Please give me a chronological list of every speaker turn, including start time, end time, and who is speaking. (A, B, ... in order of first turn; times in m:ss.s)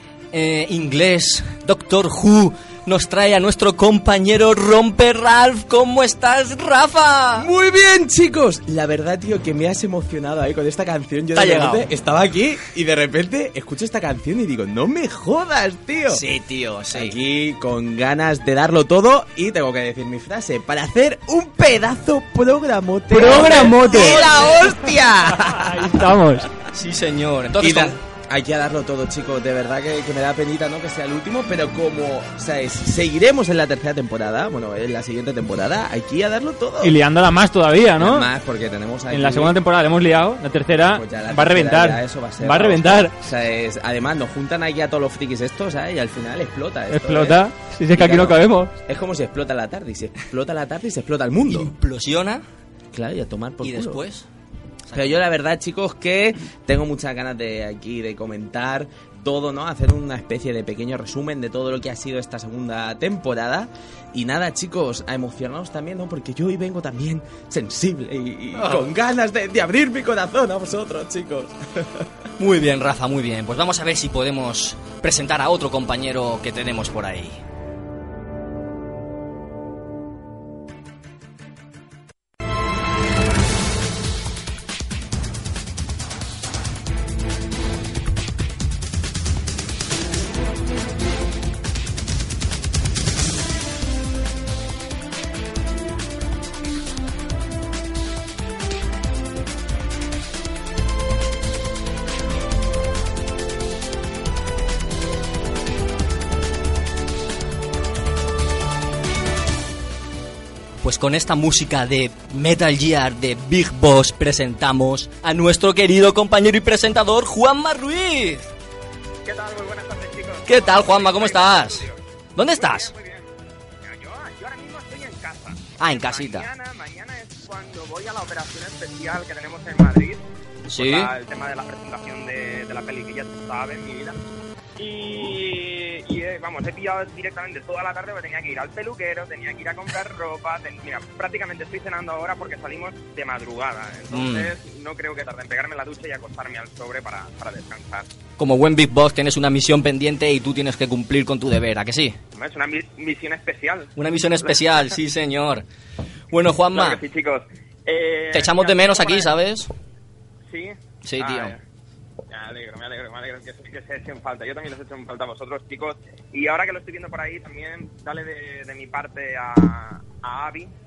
0:00.3-0:07.5 A
0:07.4-0:16.2 B
0:11.3-0:11.8 A
0:16.1-0:17.1 A
0:16.9-0:26.0 B
0:23.1-0:24.4 C
0:23.2-0:24.7 A
0:25.5-0:26.5 C
0:26.7-0:28.0 A
0:27.6-0:37.0 B
0:36.8-0:38.3 C
0:38.0-0:39.5 B
0:39.1-0:43.1 C
0:40.9-0:47.4 B
0:46.9-0:48.7 C
0:47.9-0:51.7 B
0:51.5-0:52.4 A
0:52.9-0:54.0 B
0:53.6-0:54.2 A
0:54.9-0:55.2 A
0:54.9-1:12.0 B
1:08.6-1:08.9 A
1:12.4-1:17.4 A
1:50.8-1:58.5 A
1:59.2-2:02.0 D
2:00.5-2:02.9 A
2:02.6-2:03.3 D
2:03.8-2:10.2 D
2:05.8-2:06.5 A
2:10.7-2:11.1 A
2:10.7-2:14.2 D
2:14.8-2:28.1 D
2:24.1-2:24.5 A
2:28.4-2:32.2 A
2:32.3-2:33.9 D
2:34.0-2:35.6 A
2:36.3-2:37.0 A
2:36.7-2:39.3 D
2:38.3-2:39.7 A
2:40.5-2:41.6 D
2:41.0-2:41.5 A
2:42.3-2:50.7 D